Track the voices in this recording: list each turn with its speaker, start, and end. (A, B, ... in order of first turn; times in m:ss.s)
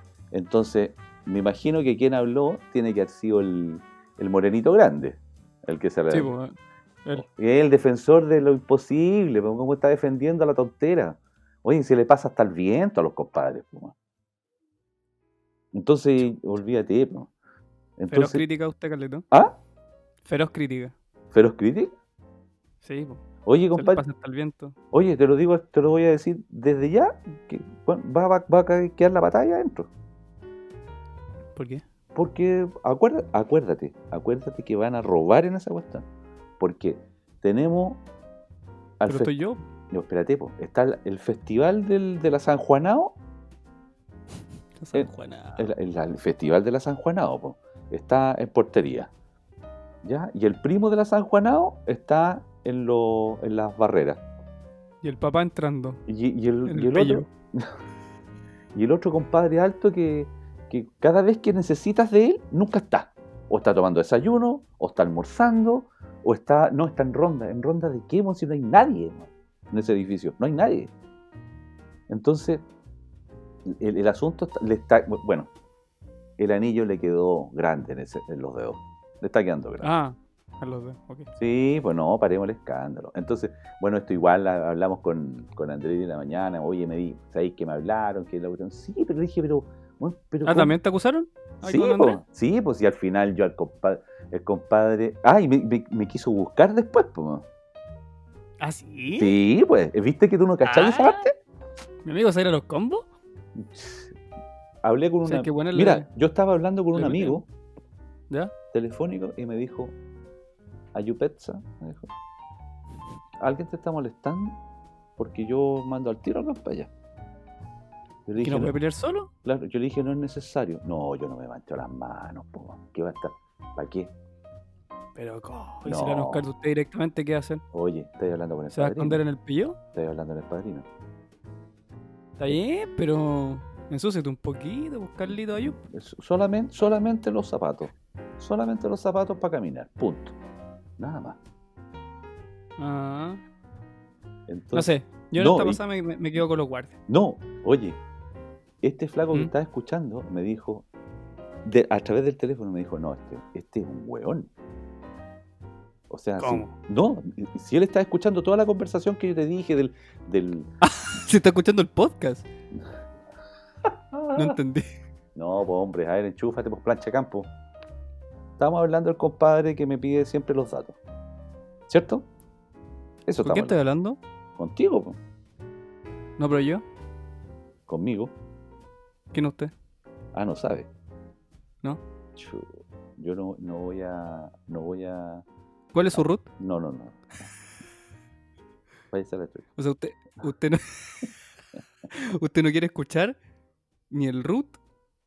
0:00.3-0:06.3 A
0:06.1-0:07.2 B
0:07.1-0:13.9 A
0:15.7-0:17.3 A
0:18.0-0:18.4 A
0:18.1-0:19.2 B
0:19.3-0:19.6 A
0:20.2-0:20.9 B
0:21.3-0:21.9 A
0:22.8-0:23.2 B
0:23.4-0:24.0 A
0:23.7-0:24.8 B
0:24.9-0:29.9 A
0:31.6-0:31.8 B
0:32.1-0:36.0 A
0:36.6-0:38.0 A
0:39.0-0:39.3 A
0:39.1-0:39.6 B
0:39.9-0:43.2 A
0:44.8-0:45.7 B
0:44.9-0:49.1 A
0:50.0-0:54.2 A
0:55.0-0:56.0 B
0:56.1-0:57.7 A
0:56.7-0:57.3 B
0:58.7-1:10.9 A
1:12.1-1:12.6 A
1:13.6-1:15.5 A
1:16.4-1:19.9 A
1:19.8-1:21.3 B
1:21.4-1:30.8 A
1:30.4-1:32.2 B
1:31.6-1:37.4 A
1:38.6-1:39.3 B
1:39.2-1:41.3 A
1:40.6-1:41.2 B
1:42.0-1:43.0 B
1:43.6-1:44.2 A
1:44.8-1:47.5 A
1:45.2-1:46.1 B
1:46.9-1:47.4 B
1:48.7-1:50.0 A
1:50.9-1:52.1 A
1:53.4-1:54.6 A
1:55.2-1:56.9 A
1:58.2-1:58.8 A
1:58.4-1:59.3 B
1:59.4-2:04.1 A
2:05.1-2:07.6 B
2:05.8-2:06.4 A
2:07.7-2:09.2 A
2:08.7-2:09.8 B
2:09.9-2:10.9 A
2:12.4-2:15.8 B
2:15.6-2:20.4 A
2:21.0-2:21.4 A
2:22.8-2:23.4 B
2:24.5-2:25.8 A
2:24.7-2:27.0 B
2:27.1-2:28.0 A
2:28.8-2:30.8 A
2:31.6-2:34.5 A
2:36.1-2:40.7 A
2:36.4-2:36.7 B
2:40.8-2:42.4 B
2:44.1-2:44.5 A
2:44.3-2:44.9 B
2:45.4-2:47.5 A
2:48.6-2:51.0 A
2:51.9-2:52.3 A
2:53.3-2:53.7 A
2:53.4-2:54.2 B
2:54.6-2:55.2 A
2:56.4-2:56.8 B
2:57.9-2:58.3 A
2:59.3-2:59.7 B
3:00.3-3:00.9 A
3:02.4-3:05.4 A
3:05.9-3:06.5 B
3:06.1-3:07.5 A
3:09.1-3:09.7 A
3:09.8-3:11.3 B
3:12.1-3:13.4 B
3:14.1-3:14.8 B